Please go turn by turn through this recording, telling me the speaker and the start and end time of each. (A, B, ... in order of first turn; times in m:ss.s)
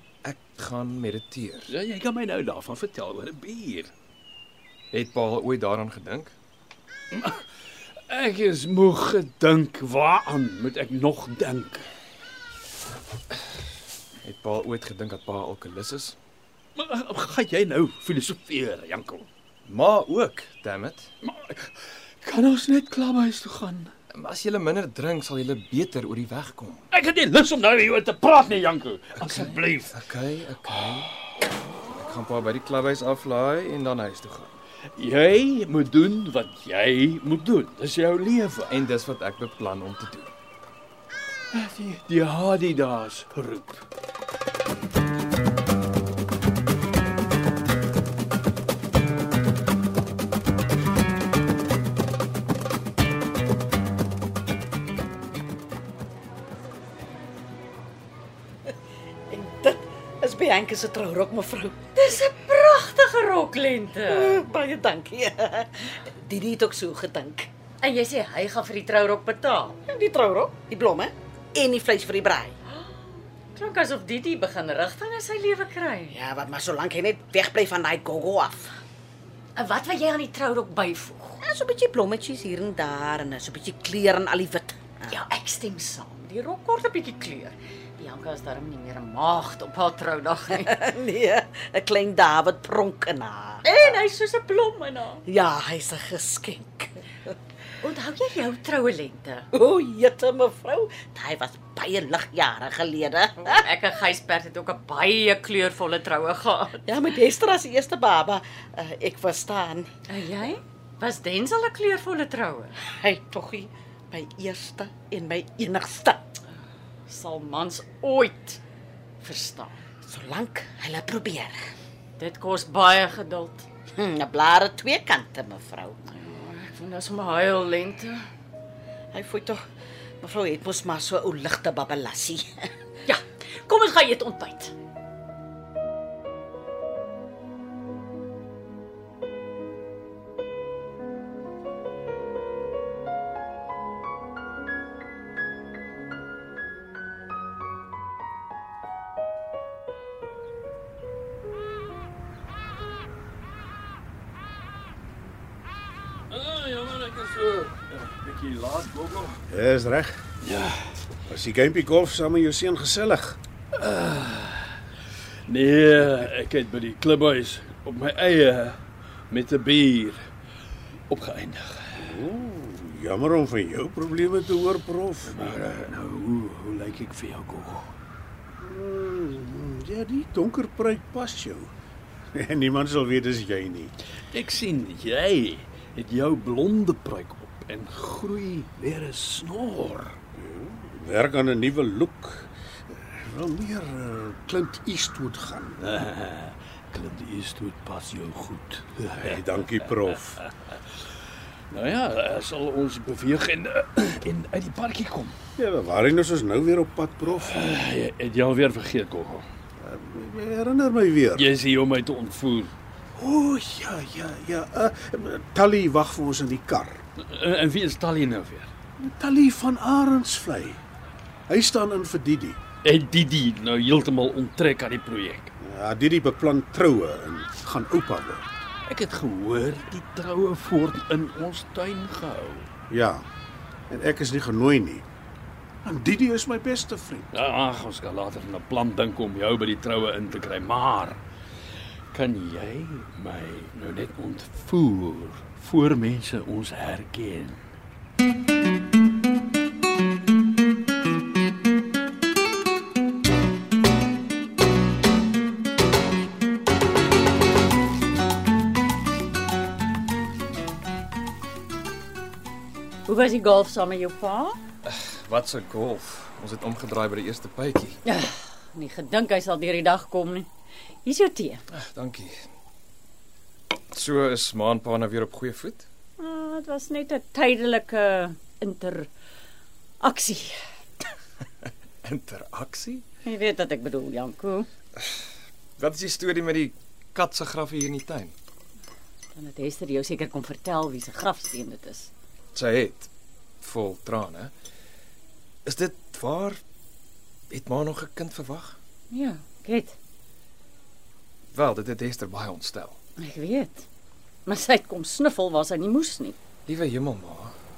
0:00.2-0:01.7 A
0:01.7-0:03.9 B
0:04.9-0:06.3 A
0:07.1-0:07.4 B
0:08.1-0:11.9 B
0:14.2-0:16.2 A
0:16.8-0:19.3 B
0:19.6-0:21.1 A
0:21.2-0:23.9 B
0:24.1-0:26.8 A
0:26.9-0:30.0 B
0:29.2-0:31.1 A
0:31.9-0:34.5 A
0:35.0-0:38.8 B
0:38.7-0:40.3 A
0:41.5-0:43.8 B
0:59.3-1:01.8 C
1:02.0-1:04.4 D
1:04.0-1:07.5 C
1:07.8-1:09.8 D
1:09.9-1:12.6 C
1:12.7-1:13.0 D
1:13.5-1:16.2 D
1:16.1-1:18.7 C
1:19.5-1:21.4 D
1:21.4-1:25.1 C
1:25.1-1:30.8 D
1:30.6-1:34.0 C
1:33.6-1:35.2 D
1:35.2-1:37.0 C
1:37.8-1:39.5 D
1:39.5-1:43.7 C
1:43.4-1:46.9 D
1:46.8-1:49.9 C
1:50.1-1:52.8 D
1:52.8-1:56.2 C
1:57.1-1:58.6 D
1:59.2-1:59.8 D
2:00.1-2:01.6 C
2:02.2-2:03.6 D
2:04.0-2:06.0 C
2:06.0-2:08.2 D
2:09.1-2:09.6 C
2:10.2-2:12.7 C
2:13.0-2:14.7 D
2:36.3-2:39.4 B
2:39.5-2:40.2 E
2:40.4-2:41.0 B
2:41.3-2:43.4 E
2:43.8-2:44.8 B
2:45.5-2:50.3 B
2:51.1-2:52.2 B
2:52.0-2:55.4 E
2:55.2-2:57.9 B
2:58.6-3:01.7 E
3:02.3-3:03.9 E
3:04.3-3:10.2 B
3:10.4-3:12.5 E
3:13.1-3:15.8 E
3:15.8-3:20.4 B
3:19.2-3:20.4 E
3:21.7-3:25.4 B
3:25.6-3:27.6 E
3:27.4-3:29.5 B
3:29.8-3:31.5 E
3:31.3-3:32.7 B
3:33.2-3:37.0 E
3:37.2-3:38.7 B
3:39.0-3:40.8 E
3:41.5-3:42.6 E
3:42.8-3:45.5 B
3:45.6-3:48.4 E
3:48.8-3:52.7 B
3:52.9-3:53.2 E
3:53.9-3:55.0 E
3:55.8-3:57.3 E
3:57.3-4:01.2 B
4:02.1-4:07.6 B
4:23.0-4:24.6 D
4:24.8-4:28.0 A
4:28.0-4:30.5 D
4:31.0-4:31.6 D
4:31.7-4:32.4 A
4:33.9-4:35.9 A
4:36.2-4:39.1 D
4:40.0-4:40.6 D
4:42.0-4:43.0 A
4:43.2-4:44.7 D
4:45.8-4:48.3 A
4:49.3-4:52.1 D
4:52.5-4:54.5 A
4:55.6-4:56.6 A
4:57.5-4:58.8 A
4:59.1-5:00.0 D
5:01.5-5:03.0 A
5:03.2-5:03.9 D
5:04.4-5:06.4 D
5:06.6-5:07.5 A